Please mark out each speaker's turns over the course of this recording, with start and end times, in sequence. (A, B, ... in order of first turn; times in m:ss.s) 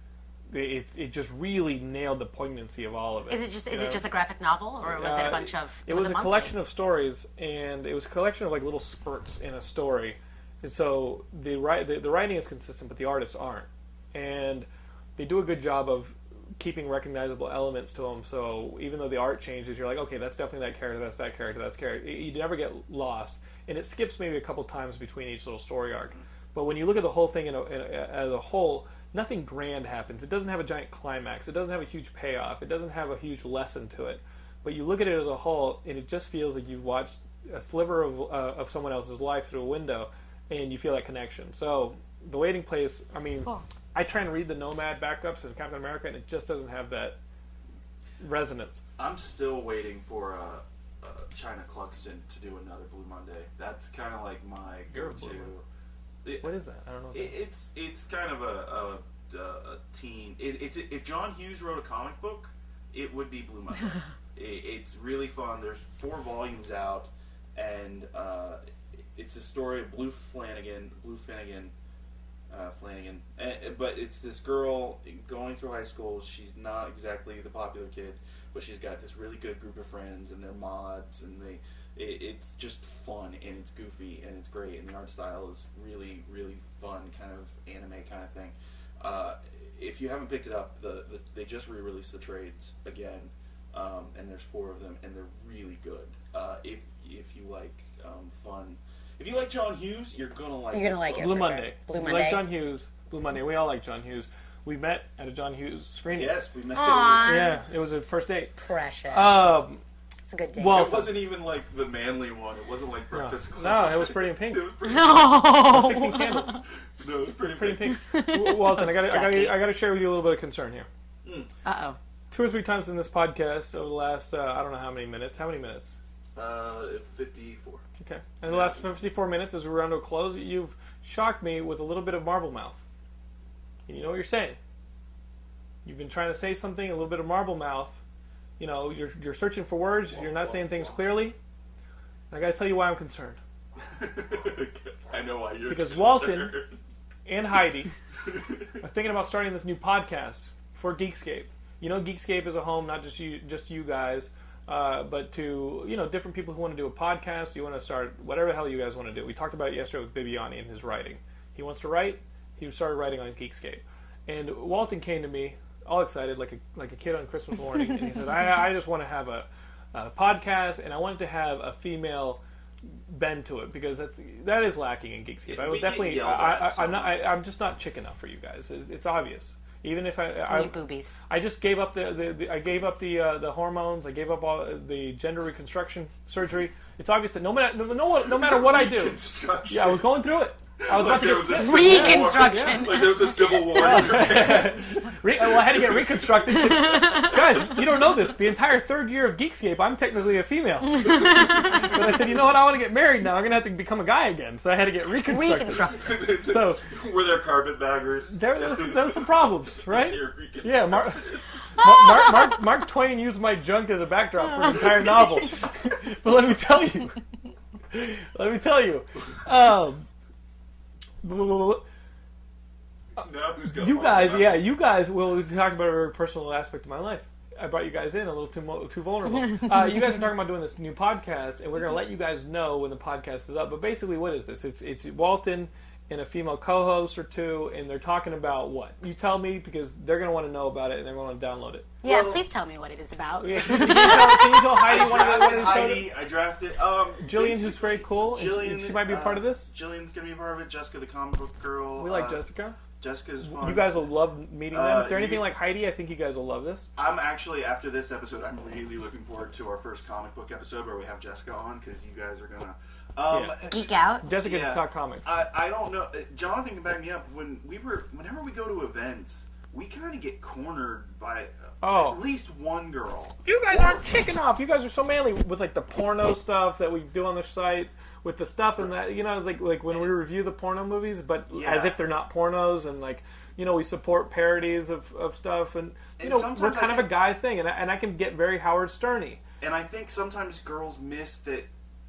0:00.5-0:04.0 A
0:03.3-0:06.6 B
0:04.8-0:47.2 A
0:48.2-0:48.8 A
0:49.0-0:55.6 C
0:54.9-0:55.5 A
0:56.4-0:57.4 A
0:57.1-1:08.6 C
1:09.2-1:11.7 C
1:12.5-1:41.6 C
1:40.7-1:42.4 B
1:41.2-1:46.4 A
1:46.1-1:47.5 C
1:46.7-1:47.6 B
1:47.2-1:48.6 A
1:48.6-1:49.6 B
1:49.1-1:49.8 A
1:50.3-1:50.9 B
1:50.6-1:51.2 A
1:50.6-1:55.4 C
1:53.1-1:54.7 A
1:54.8-1:56.6 B
1:55.4-1:56.6 A
1:57.0-1:58.0 C
1:57.4-2:00.9 A
1:57.9-1:59.7 B
2:01.2-2:01.5 C
2:01.6-2:02.0 B
2:02.3-2:06.0 A
2:06.4-2:07.8 C
2:08.0-2:12.8 A
2:08.5-2:08.9 C
2:13.9-2:14.6 A
2:15.8-2:18.0 A
2:18.6-2:21.4 A
2:20.1-2:21.0 C
2:22.3-2:23.4 A
2:23.8-2:26.8 C
2:25.7-2:26.6 A
2:27.2-2:27.9 A
2:28.8-2:52.4 A
2:53.1-3:00.8 A
2:55.5-2:57.2 C
3:00.5-3:01.2 B
3:01.3-3:26.8 A
3:08.2-3:10.1 C
3:10.8-3:16.3 C
3:11.5-3:13.9 B
3:16.8-3:17.4 B
3:21.2-3:21.7 B
3:25.2-3:26.2 B
3:26.0-3:31.4 C
3:28.3-3:37.2 A
3:37.9-3:40.1 A
3:41.2-3:41.8 A
3:43.2-3:44.7 C
3:43.7-4:02.0 A
4:02.0-4:05.1 B
4:02.0-4:02.4 C
4:03.4-4:06.1 A
4:04.8-4:12.4 C
4:07.2-4:09.7 A
4:12.0-4:12.8 A
4:13.0-4:14.1 C
4:13.4-4:16.9 A
4:14.7-4:15.5 C
4:17.0-4:34.0 C
4:23.3-4:23.7 A
4:23.6-4:24.3 B
4:24.2-4:25.3 A
4:31.8-4:32.2 A
4:33.4-4:49.4 A
4:41.5-4:42.0 C
4:46.2-4:47.2 C
4:49.6-4:51.7 C